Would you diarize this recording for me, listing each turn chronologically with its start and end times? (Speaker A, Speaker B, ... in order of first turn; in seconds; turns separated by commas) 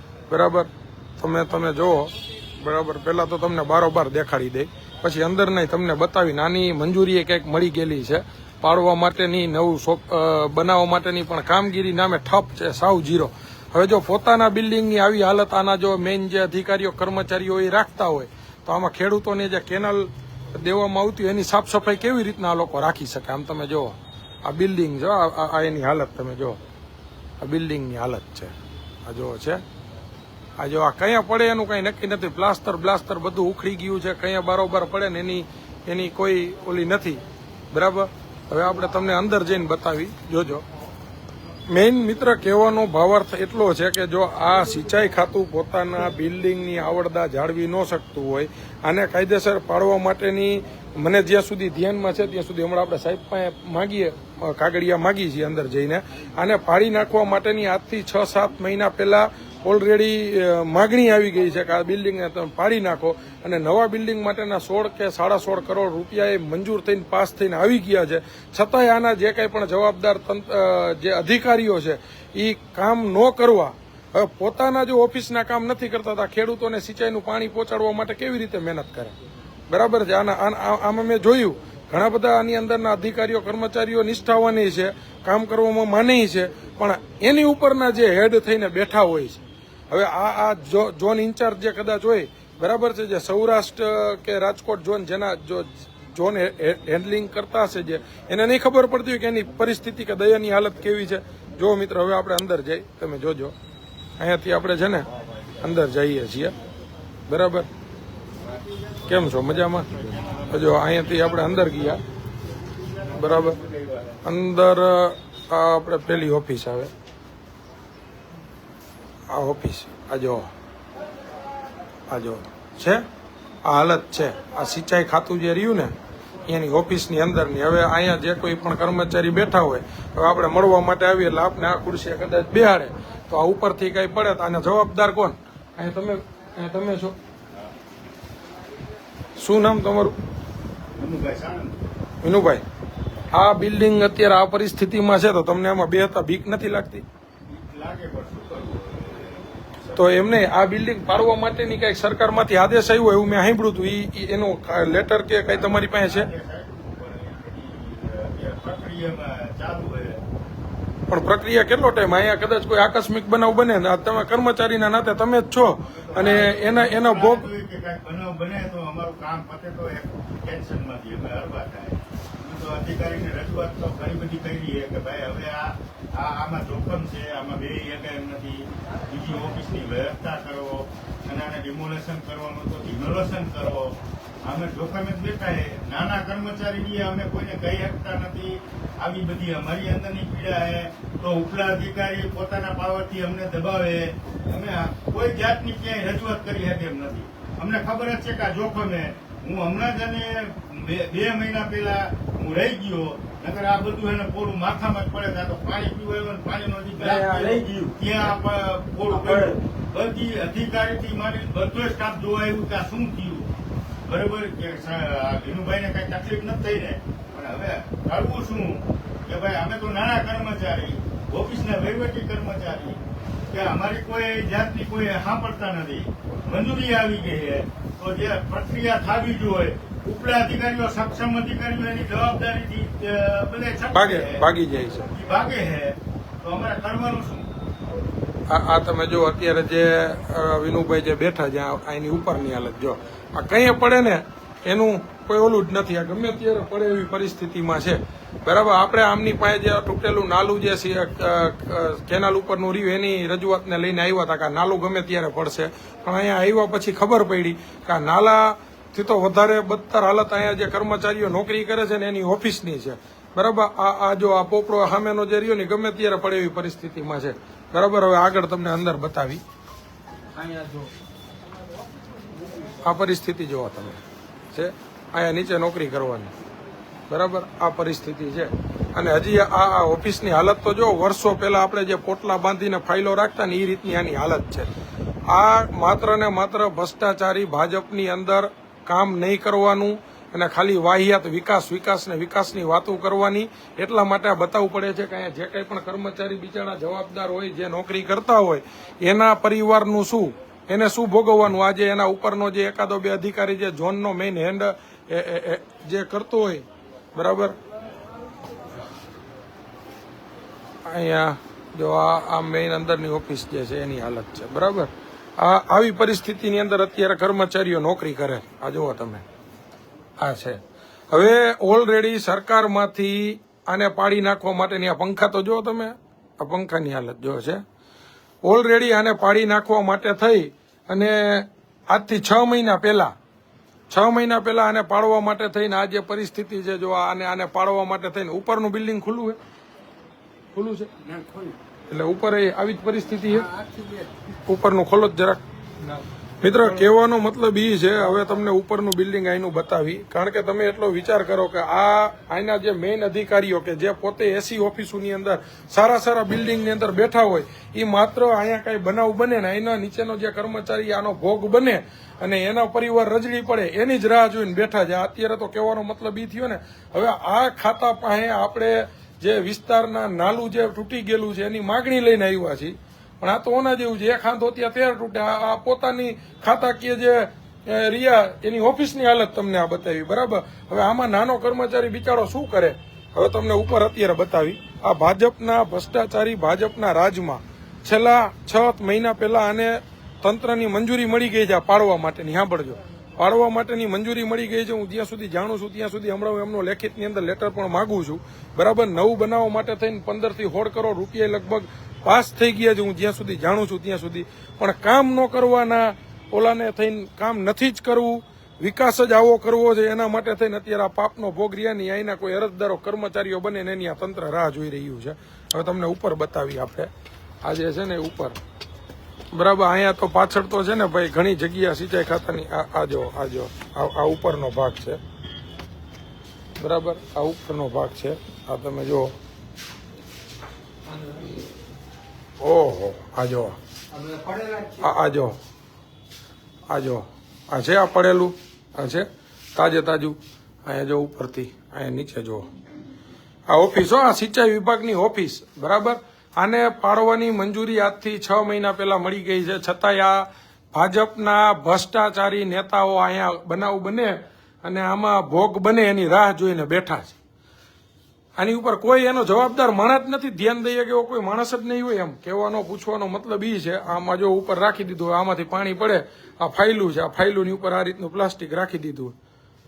Speaker A: 0.3-26.6, Speaker A: 27.4-28.5, Speaker A: 29.0-29.6, Speaker A: 30.6-40.6, Speaker A: 41.7-79.1, Speaker A: 79.7-103.5, Speaker A: 104.2-105.1, Speaker A: 105.6-106.5, Speaker A: 107.3-107.7, Speaker A: 109.0-112.0, Speaker B: 110.1-111.4, Speaker B: 112.8-114.2, Speaker A: 113.1-113.6, Speaker A: 114.2-116.9, Speaker A: 119.3-120.5, Speaker A: 122.1-123.0, Speaker A: 123.6-125.9, Speaker A: 126.5-137.2, Speaker A: 139.4-140.2, Speaker B: 140.9-141.8, Speaker A: 142.2-142.6, Speaker A: 143.3-147.0, Speaker B: 147.5-149.9, Speaker A: 149.9-156.3, Speaker B: 155.5-160.2, Speaker A: 161.1-167.5, Speaker B: 165.8-213.5, Speaker C: 207.1-207.7, Speaker C: 209.2-209.5, Speaker B: 214.1-234.4, Speaker A: 233.9-235.1, Speaker B: 235.1-237.5, Speaker A: 238.5-269.4, Speaker C: 270.4-270.9, Speaker A: 272.8-276.3, Speaker A: 277.1-284.7, Speaker A: 285.3-307.5, Speaker A: 310.8-319.2, Speaker A: 320.2-327.6, Speaker A: 328.4-333.1, Speaker A: 333.9-339.4, Speaker A: 340.5-340.9, Speaker C: 341.0-341.6, Speaker A: 341.9-343.6, Speaker C: 343.6-344.1, Speaker A: 344.4-345.4, Speaker A: 346.4-416.9, Speaker A: 417.4-418.4, Speaker A: 419.3-425.0, Speaker A: 426.6-429.1, Speaker A: 432.4-433.6, Speaker C: 433.9-434.8, Speaker A: 434.8-435.4, Speaker A: 436.7-442.5, Speaker A: 443.5-457.2, Speaker A: 458.4-469.1